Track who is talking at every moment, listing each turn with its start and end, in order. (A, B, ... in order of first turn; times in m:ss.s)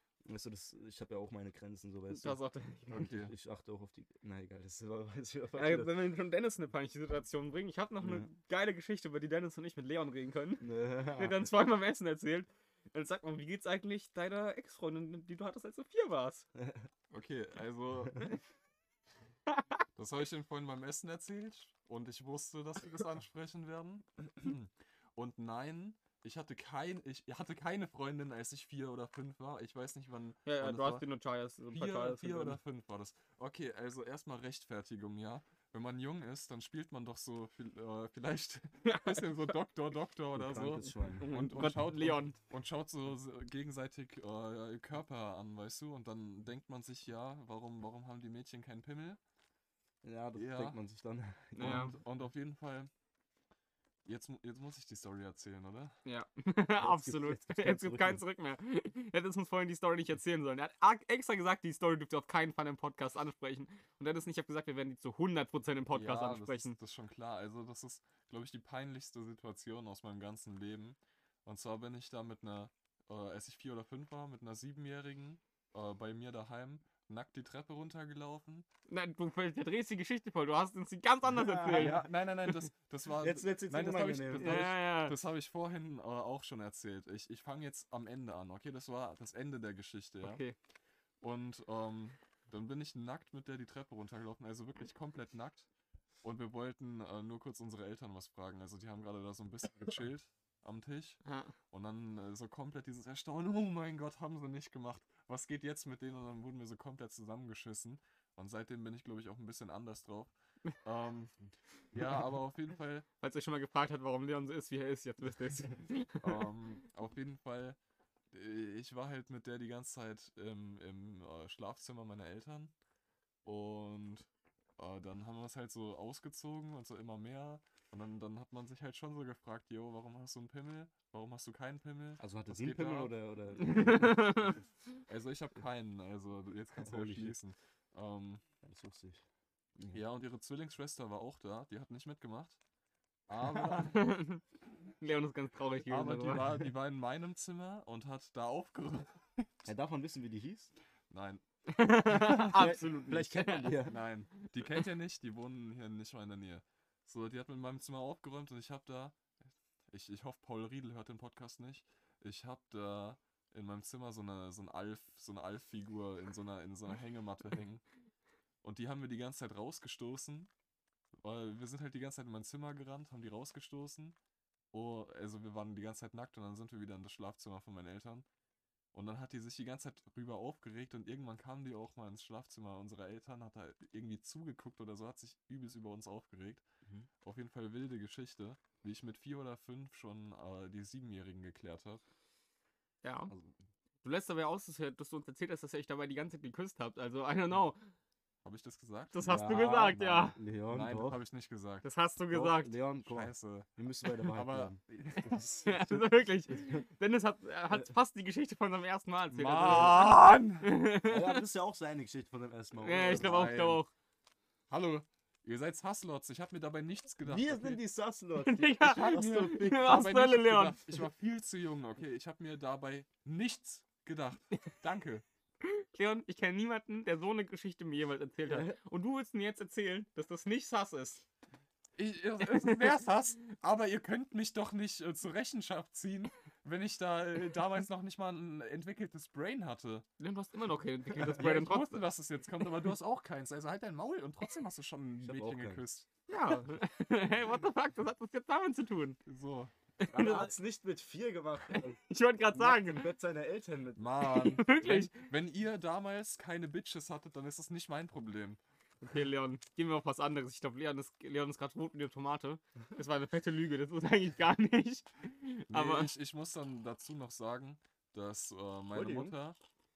0:00.2-0:02.4 A
0:02.1-0:03.1 B
0:02.9-0:03.3 C
0:03.1-0:05.9 A
0:05.5-0:16.4 B
0:08.0-0:08.3 A
0:10.6-0:11.5 A
0:16.5-0:16.9 A
0:17.1-0:18.4 C
0:20.0-0:31.0 C
0:30.4-0:32.6 B
0:31.7-0:49.2 C
0:38.8-0:39.5 B
0:40.3-0:41.3 A
0:41.1-0:42.4 B
0:50.0-0:52.0 A
0:50.3-0:50.8 C
0:51.6-0:52.9 C
0:51.6-0:52.0 B
0:54.0-0:55.9 C
0:56.0-1:06.8 B
0:56.8-0:58.2 A
1:05.9-1:18.6 C
1:18.9-1:22.0 B
1:21.3-1:22.1 A
1:21.6-1:30.4 C
1:23.2-1:24.7 A
1:24.4-1:25.2 B
1:30.2-1:30.5 B
1:31.2-1:35.7 C
1:36.2-1:50.3 C
1:41.2-1:41.5 B
1:50.8-1:51.3 C
1:51.9-1:53.1 C
1:53.2-1:56.4 B
1:56.2-1:57.8 C
1:58.3-2:02.7 C
2:03.4-2:13.1 C
2:12.2-2:14.6 A
2:13.6-2:14.5 B
2:15.1-2:18.4 C
2:16.8-2:17.4 A
2:18.6-2:19.2 A
2:19.9-2:22.6 C
2:23.3-2:24.1 C
2:23.5-2:24.4 B
2:25.0-2:26.6 B
2:25.9-2:29.5 C
2:29.6-2:30.7 A
2:31.1-2:31.4 C
2:31.7-2:33.8 B
2:32.1-2:34.0 A
2:32.1-2:32.4 C
2:33.8-2:39.3 C
2:39.9-2:47.8 C
2:48.6-2:50.5 C
2:51.2-2:54.2 C
2:54.7-2:58.2 C
2:58.9-3:06.6 C
3:07.2-3:12.0 C
3:13.0-3:13.3 B
3:14.0-3:17.8 B
3:18.4-3:19.3 C
3:19.1-3:20.4 B
3:19.2-3:21.2 A
3:20.7-3:21.8 C
3:21.8-3:22.8 B
3:22.3-3:26.8 A
3:23.0-3:23.7 C
3:24.2-3:25.5 C
3:25.6-3:31.4 B
3:29.3-3:30.7 C
3:31.1-3:33.5 A
3:32.8-3:33.9 B
3:33.0-3:33.8 C
3:34.7-3:37.8 C
3:37.2-3:40.1 A
3:38.4-3:40.8 B
3:38.8-3:45.2 C
3:45.6-3:51.2 B
3:48.5-3:48.8 A
3:52.0-4:00.0 C
3:52.5-3:52.9 B
4:00.2-4:02.0 B
4:01.2-4:06.1 C
4:05.2-4:05.8 A
4:06.3-4:09.2 B
4:09.2-4:09.7 C
4:10.0-4:10.5 B
4:10.1-4:12.0 A
4:11.7-4:13.1 B
4:12.5-4:14.0 A
4:14.0-4:18.6 C
4:14.2-4:15.1 B
4:19.0-4:26.1 B
4:25.7-4:29.6 C
4:28.9-4:29.3 A